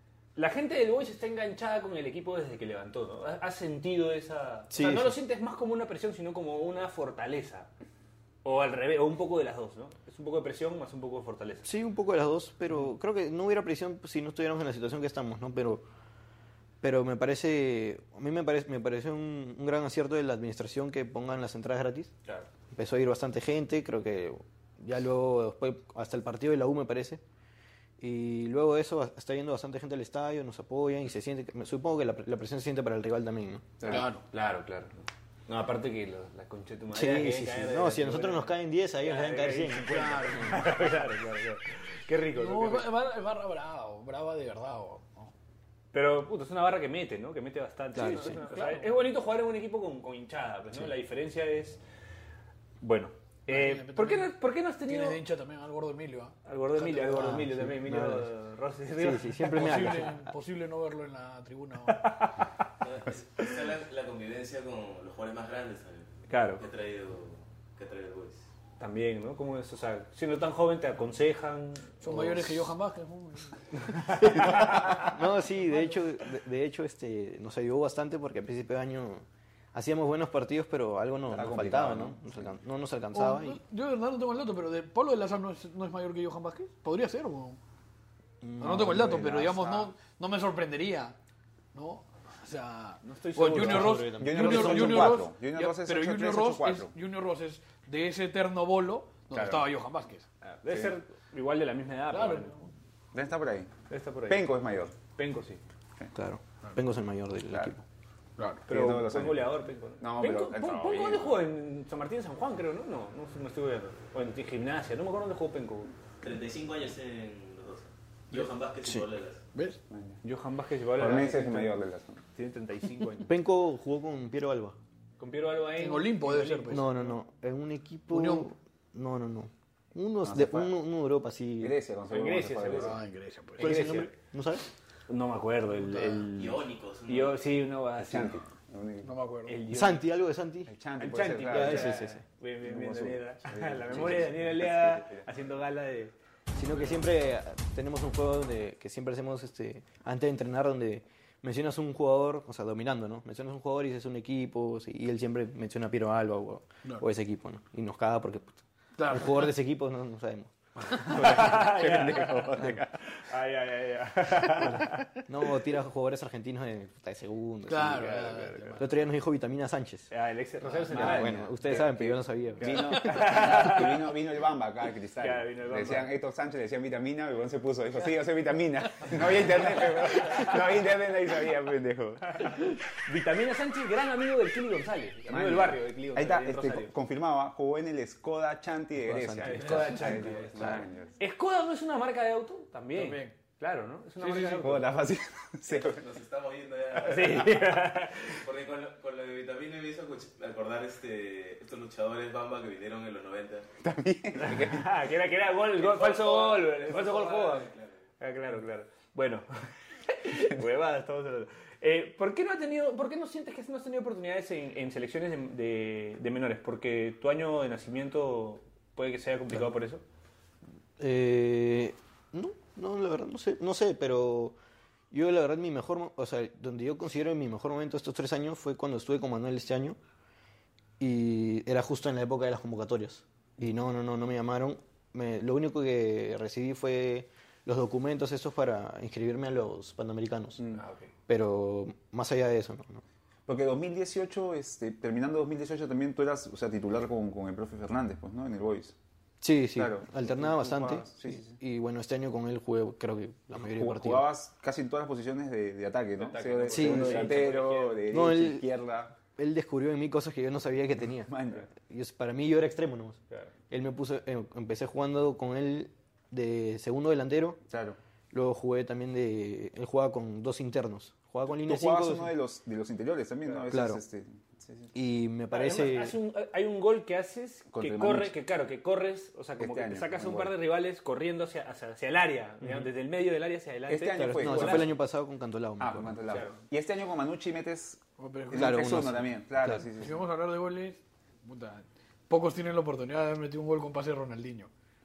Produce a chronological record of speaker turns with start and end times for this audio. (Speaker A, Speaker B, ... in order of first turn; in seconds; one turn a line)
Speaker A: 0.3-7.7
Speaker B: 4.7-5.2
Speaker A: 8.4-11.7
Speaker B: 11.6-15.8
Speaker B: 16.8-22.1
Speaker B: 22.7-27.2
Speaker B: 28.0-33.8
Speaker C: 33.9-34.2
Speaker A: 34.2-42.9
Speaker B: 36.9-40.7
Speaker C: 39.8-40.8
Speaker C: 42.3-45.3
Speaker A: 45.9-51.8
Speaker B: 47.9-48.5
Speaker C: 48.1-48.9
Speaker A: 52.8-55.2
Speaker C: 53.5-54.3
Speaker C: 54.9-57.3
Speaker A: 56.5-59.5
Speaker B: 57.0-58.3
Speaker B: 58.9-60.3
Speaker C: 59.5-62.0
Speaker A: 61.9-62.5
Speaker D: 62.8-68.4
Speaker A: 66.3-66.6
Speaker A: 68.8-72.6
Speaker C: 72.0-75.0
Speaker A: 74.0-75.0
Speaker B: 74.2-83.6
Speaker C: 75.5-76.0
Speaker E: 81.3-82.5
Speaker C: 83.1-87.6
Speaker B: 88.4-89.9
Speaker C: 88.6-91.2
Speaker C: 91.7-100.2
Speaker A: 93.0-94.1
Speaker B: 93.5-95.2
Speaker E: 94.2-96.9
Speaker E: 99.3-99.7
Speaker A: 100.4-102.5
Speaker E: 100.7-101.0
Speaker C: 102.1-102.7
Speaker E: 103.1-103.7
Speaker A: 103.9-104.5
Speaker E: 104.3-104.9
Speaker A: 105.1-105.6
Speaker B: 106.1-107.8
Speaker E: 107.5-107.7
Speaker C: 108.4-108.7
Speaker E: 108.7-111.4
Speaker A: 108.7-115.9
Speaker D: 116.2-119.4
Speaker C: 119.5-119.8
Speaker E: 119.9-120.2
Speaker A: 120.2-121.8
Speaker E: 121.0-122.2
Speaker A: 122.3-123.3
Speaker B: 123.3-124.8
Speaker A: 125.2-127.2
Speaker C: 125.8-126.8
Speaker B: 126.7-131.8
Speaker C: 128.1-128.5
Speaker E: 130.2-130.7
Speaker E: 131.6-133.0
Speaker A: 132.1-133.0
Speaker C: 132.7-133.7
Speaker B: 133.6-134.7
Speaker A: 133.6-134.1
Speaker A: 135.1-138.4
Speaker C: 135.8-136.3
Speaker D: 136.3-137.5
Speaker E: 138.0-139.1
Speaker C: 139.0-139.5
Speaker A: 139.5-140.1
Speaker B: 139.7-140.7
Speaker E: 140.7-142.1
Speaker A: 141.0-146.1
Speaker B: 141.4-142.2
Speaker E: 142.6-145.2
Speaker B: 146.5-160.5
Speaker C: 159.0-159.5
Speaker A: 161.0-165.1
Speaker E: 161.1-162.9
Speaker B: 165.3-168.2
Speaker C: 167.7-168.9
Speaker A: 167.8-168.8
Speaker B: 168.8-170.1
Speaker A: 170.1-171.5
Speaker E: 170.6-182.6
Speaker B: 170.9-173.4
Speaker A: 172.6-174.1
Speaker A: 175.2-176.1
Speaker A: 179.8-180.5
Speaker A: 182.4-186.9
Speaker E: 185.3-191.1
Speaker B: 189.0-190.9
Speaker A: 189.4-195.0
Speaker C: 189.7-190.5
Speaker C: 192.9-193.3
Speaker E: 194.2-196.0
Speaker D: 195.7-203.7
Speaker A: 197.0-198.4
Speaker E: 203.8-204.9
Speaker A: 204.4-209.5
Speaker D: 205.7-208.0
Speaker A: 210.1-220.0
Speaker B: 221.0-224.6
Speaker B: 225.1-230.0
Speaker B: 231.0-240.6
Speaker E: 240.6-240.8
Speaker A: 240.7-241.1
Speaker B: 241.3-243.0
Speaker E: 243.5-248.9
Speaker B: 249.4-254.3
Speaker E: 249.7-251.6
Speaker E: 253.6-259.1
Speaker A: 256.2-258.0
Speaker B: 256.7-257.3
Speaker B: 258.1-263.2
Speaker E: 261.2-261.7
Speaker B: 263.7-267.6
Speaker E: 267.7-268.0
Speaker B: 268.3-272.4
Speaker E: 271.5-274.9
Speaker B: 273.7-274.0
Speaker B: 274.9-276.2
Speaker A: 275.5-284.9
Speaker E: 277.7-278.3
Speaker E: 279.6-280.5
Speaker E: 283.9-284.9
Speaker B: 284.1-286.2
Speaker E: 285.8-290.2
Speaker A: 286.3-286.6
Speaker C: 288.2-289.1
Speaker B: 288.5-289.9
Speaker C: 289.9-294.7